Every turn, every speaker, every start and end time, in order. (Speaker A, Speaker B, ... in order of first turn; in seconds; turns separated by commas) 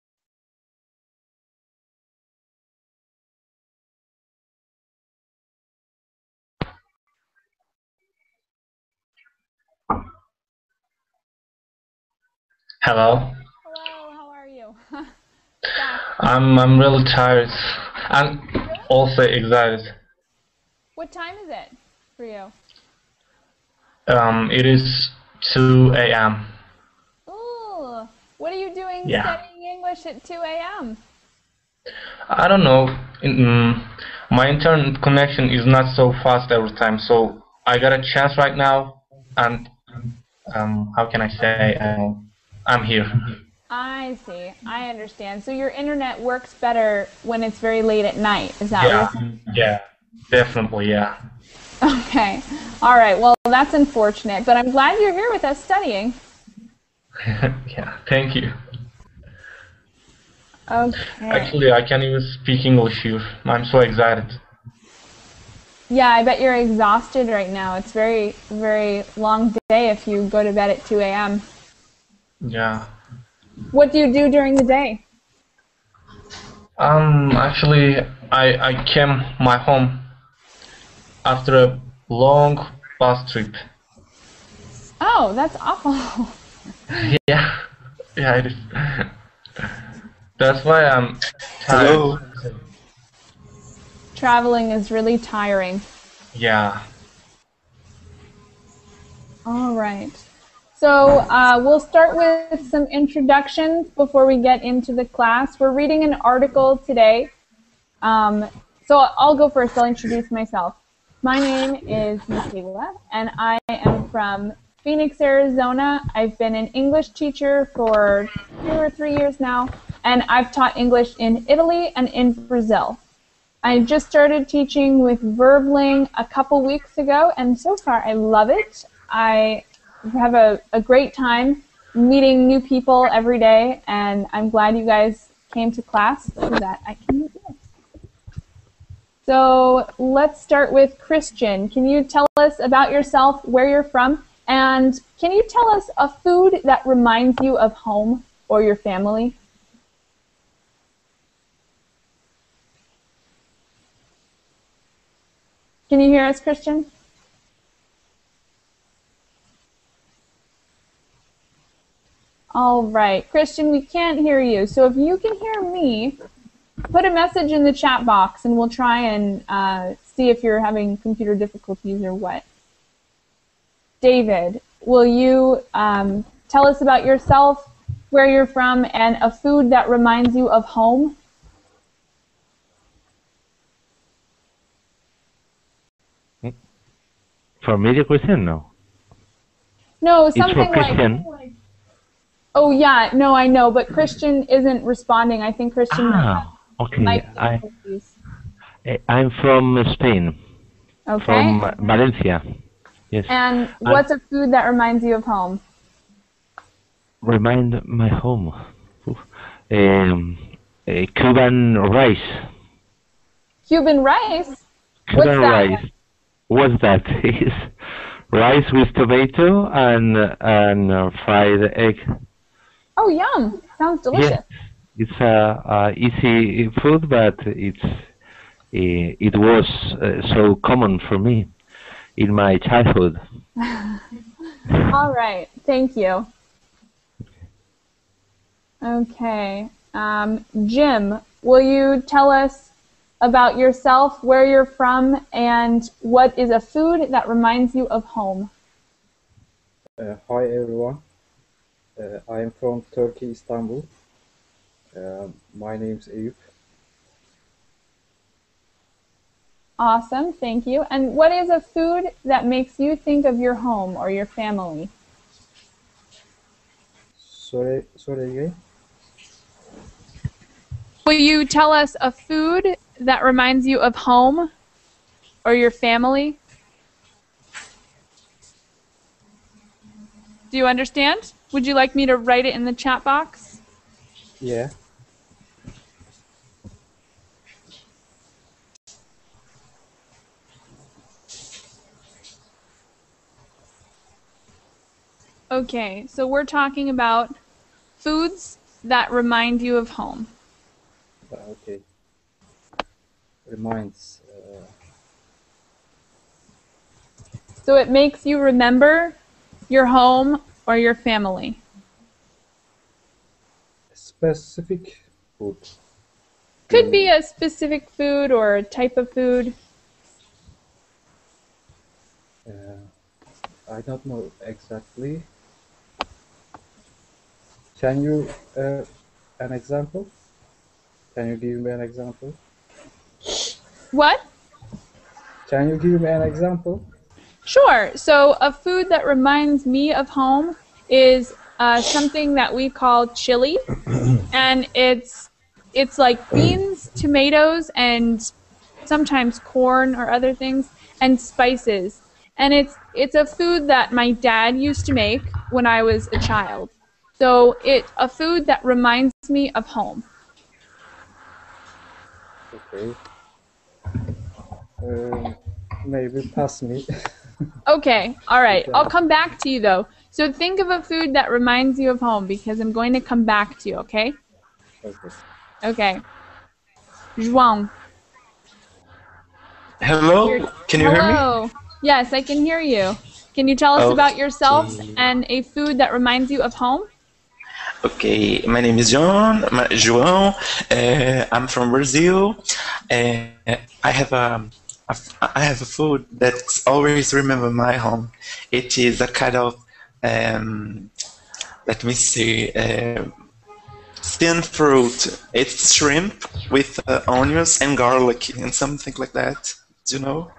Speaker A: 12.8-13.3, Speaker B: 13.6-15.1, Speaker B: 15.7-16.1, Speaker A: 16.2-19.9, Speaker B: 21.0-22.5, Speaker A: 24.1-26.5, Speaker B: 27.3-31.0, Speaker A: 29.0-29.4, Speaker A: 32.3-39.7, Speaker A: 40.5-43.4, Speaker B: 43.7-49.1, Speaker A: 48.8-51.1, Speaker B: 51.8-56.2, Speaker A: 57.2-58.5, Speaker B: 60.7-61.6, Speaker A: 61.3-64.4, Speaker B: 65.9-71.4, Speaker A: 72.4-72.9, Speaker B: 73.7-75.0, Speaker A: 76.8-80.0, Speaker A: 81.2-83.6, Speaker B: 85.0-86.3, Speaker A: 86.9-87.6, Speaker A: 88.2-89.1, Speaker A: 90.4-92.6, Speaker C: 91.7-92.2, Speaker B: 94.1-95.8, Speaker A: 96.3-96.8, Speaker B: 99.5-100.2, Speaker B: 100.8-107.3, Speaker B: 108.0-123.0, Speaker B: 123.6-137.6, Speaker B: 139.2-149.3, Speaker B: 155.9-156.9, Speaker B: 162.5-166.2, Speaker B: 166.9-172.4, Speaker B: 174.0-181.2, Speaker D: 187.6-188.7, Speaker B: 190.0-191.3, Speaker D: 190.3-191.3, Speaker B: 192.5-196.4, Speaker D: 195.9-197.6, Speaker B: 197.0-198.1, Speaker D: 198.8-200.4, Speaker B: 201.1-202.0, Speaker D: 201.2-202.4, Speaker D: 203.1-204.0, Speaker B: 203.3-205.6, Speaker D: 207.2-212.4, Speaker B: 213.7-215.8, Speaker D: 215.1-215.9, Speaker D: 216.5-217.7, Speaker D: 218.3-222.0, Speaker B: 223.0-224.4, Speaker D: 224.1-224.4, Speaker D: 224.9-228.0, Speaker D: 228.7-231.5, Speaker D: 232.2-233.2, Speaker B: 233.7-234.0, Speaker B: 234.9-236.3, Speaker B: 238.8-242.7, Speaker B: 243.2-248.5, Speaker E: 250.0-251.0, Speaker E: 252.0-253.9, Speaker E: 254.9-256.4, Speaker B: 259.8-264.9, Speaker E: 267.2-268.6, Speaker B: 271.0-274.5, Speaker B: 275.4-276.4, Speaker B: 280.5-283.6, Speaker E: 284.4-284.7, Speaker B: 295.5-297.3, Speaker B: 298.0-300.3, Speaker E: 301.3-301.8, Speaker E: 303.4-304.7, Speaker B: 307.6-309.2, Speaker B: 309.7-311.6, Speaker E: 313.9-315.7, Speaker E: 316.7-317.1, Speaker B: 316.7-319.5, Speaker E: 322.4-322.9, Speaker E: 323.7-325.2, Speaker E: 327.8-328.9, Speaker E: 329.4-330.1, Speaker E: 331.1-332.4, Speaker B: 333.9-334.2, Speaker E: 335.4-336.9, Speaker B: 337.4-343.6, Speaker B: 344.3-348.3, Speaker B: 348.9-360.1, Speaker E: 362.5-363.0, Speaker E: 364.8-367.1, Speaker B: 367.6-374.2, Speaker E: 368.5-368.9, Speaker E: 374.8-375.1, Speaker B: 375.6-376.0, Speaker B: 377.2-377.7, Speaker C: 379.8-381.2, Speaker B: 380.2-386.9, Speaker C: 383.8-385.0, Speaker C: 387.8-392.4, Speaker C: 392.9-400.9, Speaker C: 401.7-403.1, Speaker C: 404.0-410.3